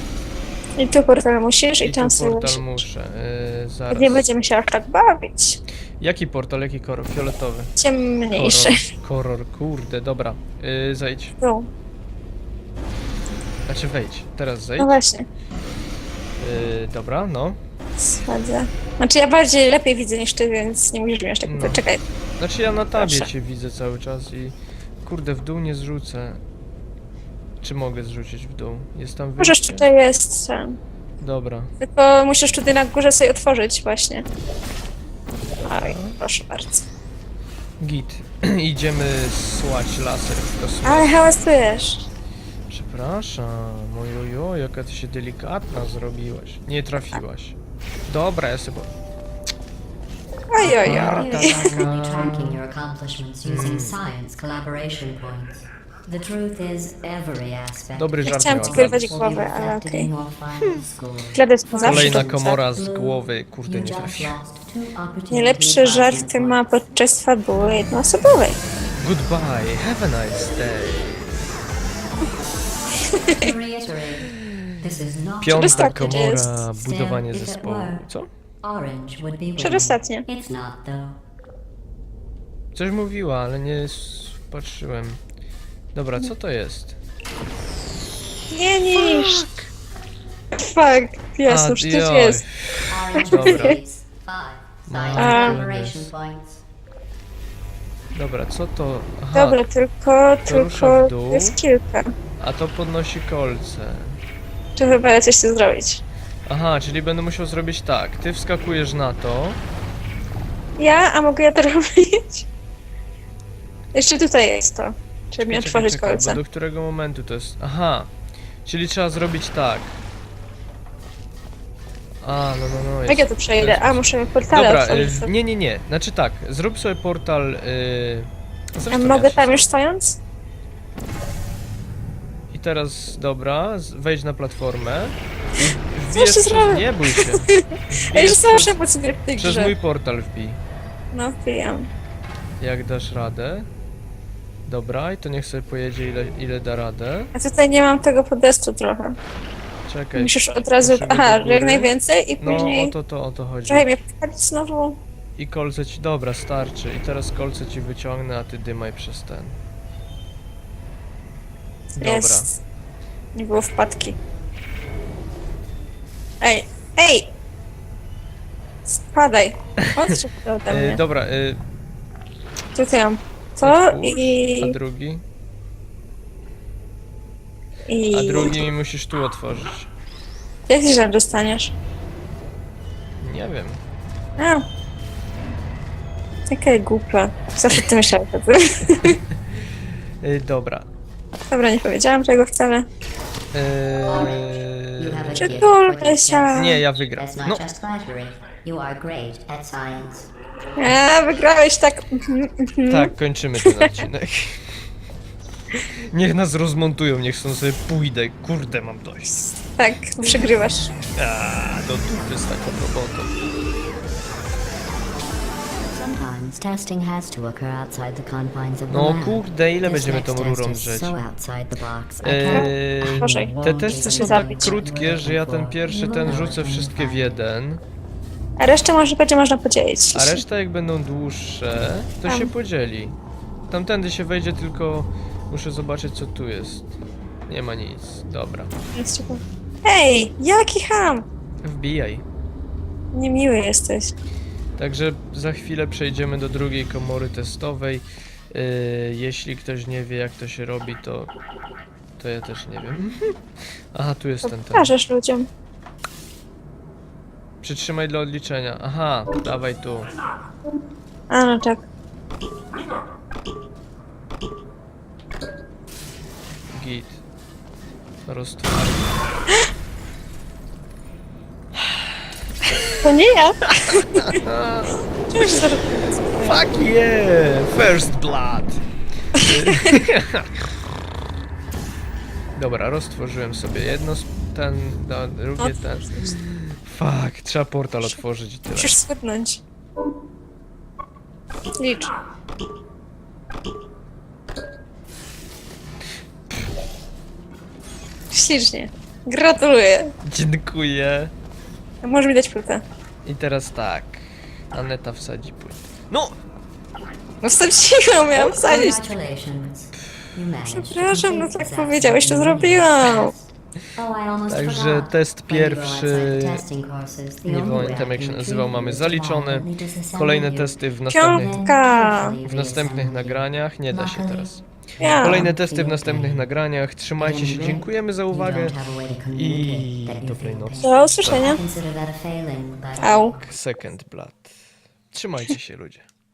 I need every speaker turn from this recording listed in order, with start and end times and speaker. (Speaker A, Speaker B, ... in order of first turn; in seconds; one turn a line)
Speaker A: 0.8-2.8
Speaker B: 1.8-4.3
Speaker A: 3.9-5.6
Speaker B: 6.0-7.7
Speaker A: 7.8-8.8
Speaker B: 8.3-11.4
Speaker A: 11.4-11.7
Speaker B: 13.7-15.0
Speaker A: 14.8-15.2
Speaker B: 16.4-17.6
Speaker A: 18.0-22.0
Speaker B: 21.4-21.8
Speaker B: 22.4-26.4
Speaker A: 23.0-23.3
Speaker B: 27.6-29.8
Speaker A: 29.4-30.8
Speaker B: 31.2-31.7
Speaker A: 31.8-34.2
Speaker B: 35.6-36.2
Speaker A: 35.7-36.8
Speaker B: 37.8-41.2
Speaker A: 40.8-42.1
Speaker B: 42.7-47.5
Speaker B: 48.1-48.9
Speaker A: 50.5-51.9
Speaker C: 50.6-66.7
Speaker B: 50.6-52.6
Speaker B: 53.4-54.0
Speaker B: 57.9-59.2
Speaker A: 58.2-60.1
Speaker A: 61.4-62.3
Speaker B: 61.8-64.3
Speaker A: 65.3-68.6
Speaker B: 68.9-71.5
Speaker C: 73.3-78.0
Speaker B: 75.4-78.3
Speaker A: 75.5-76.4
Speaker C: 78.6-81.2
Speaker A: 79.6-80.2
Speaker B: 82.7-85.2
Speaker B: 85.9-87.0
Speaker A: 88.5-89.5
Speaker B: 88.9-89.7
Speaker A: 90.5-92.4
Speaker B: 91.5-93.8
Speaker C: 92.9-96.6
Speaker A: 93.3-93.8
Speaker B: 94.9-96.1
Speaker A: 95.2-95.6
Speaker B: 98.1-99.6
Speaker A: 99.3-102.1
Speaker B: 100.5-101.5
Speaker B: 102.4-104.2
Speaker A: 104.8-106.0
Speaker B: 106.5-109.6
Speaker A: 110.8-112.5
Speaker A: 113.9-116.4
Speaker B: 115.4-118.1
Speaker B: 118.6-120.0
Speaker B: 122.2-129.6
Speaker A: 123.1-125.3
Speaker A: 128.9-130.2
Speaker B: 132.5-138.8
Speaker A: 136.1-139.7
Speaker B: 139.4-140.6
Speaker A: 141.1-141.9
Speaker B: 142.6-143.7
Speaker B: 144.7-147.3
Speaker A: 147.3-149.2
Speaker B: 149.9-153.9
Speaker A: 150.2-152.9
Speaker A: 153.7-155.0
Speaker B: 155.3-159.6
Speaker B: 161.9-162.5
Speaker A: 162.0-162.5
Speaker A: 163.3-164.2
Speaker A: 166.4-167.3
Speaker A: 168.9-171.0
Speaker B: 169.9-170.1
Speaker B: 170.7-171.6
Speaker A: 172.8-174.8
Speaker B: 173.6-175.2
Speaker A: 177.9-178.7
Speaker B: 178.1-179.9
Speaker A: 180.7-181.7
Speaker B: 183.2-183.8
Speaker A: 184.4-184.6
Speaker A: 186.5-189.2
Speaker B: 190.2-190.9
Speaker A: 191.5-192.8
Speaker B: 193.5-195.6
Speaker C: 194.1-200.3
Speaker A: 195.4-196.8
Speaker B: 196.5-197.6
Speaker A: 200.8-204.0
Speaker B: 202.9-204.7
Speaker B: 205.8-209.4
Speaker A: 209.8-210.9
Speaker B: 211.2-213.3
Speaker C: 215.9-227.4
Speaker B: 218.9-221.2
Speaker B: 222.2-227.8
Speaker A: 222.5-224.8
Speaker A: 228.6-230.4
Speaker B: 230.1-233.2
Speaker A: 232.3-232.5
Speaker B: 233.7-236.9
Speaker B: 237.5-238.7
Speaker A: 238.9-241.2
Speaker B: 241.6-242.2
Speaker A: 243.1-244.1
Speaker B: 244.8-251.3
Speaker B: 252.2-253.3
Speaker B: 253.9-254.9
Speaker A: 254.4-255.5
Speaker B: 257.6-260.1
Speaker A: 261.3-261.8
Speaker B: 266.7-267.2
Speaker B: 268.2-269.1
Speaker B: 271.7-272.2
Speaker A: 273.0-274.3
Speaker B: 273.7-275.7
Speaker A: 275.3-276.7
Speaker B: 276.4-278.8
Speaker B: 279.4-280.6
Speaker A: 279.4-279.8
Speaker B: 282.5-289.0
Speaker A: 285.6-286.3
Speaker A: 288.7-289.6
Speaker A: 291.8-292.1
Speaker A: 298.3-300.1
Speaker B: 300.2-301.3
Speaker A: 302.0-302.8
Speaker B: 303.2-306.4
Speaker A: 307.4-309.0
Speaker C: 308.3-320.8
Speaker A: 310.7-313.3
Speaker B: 314.5-316.6
Speaker B: 317.4-321.6
Speaker A: 321.1-322.3
Speaker C: 321.4-326.5
Speaker B: 322.4-324.6
Speaker A: 325.0-325.5
Speaker B: 325.2-328.8
Speaker C: 327.1-333.5
Speaker B: 329.3-331.5
Speaker A: 330.8-331.6
Speaker A: 333.0-333.3
Speaker B: 333.4-334.5
Speaker B: 335.1-336.1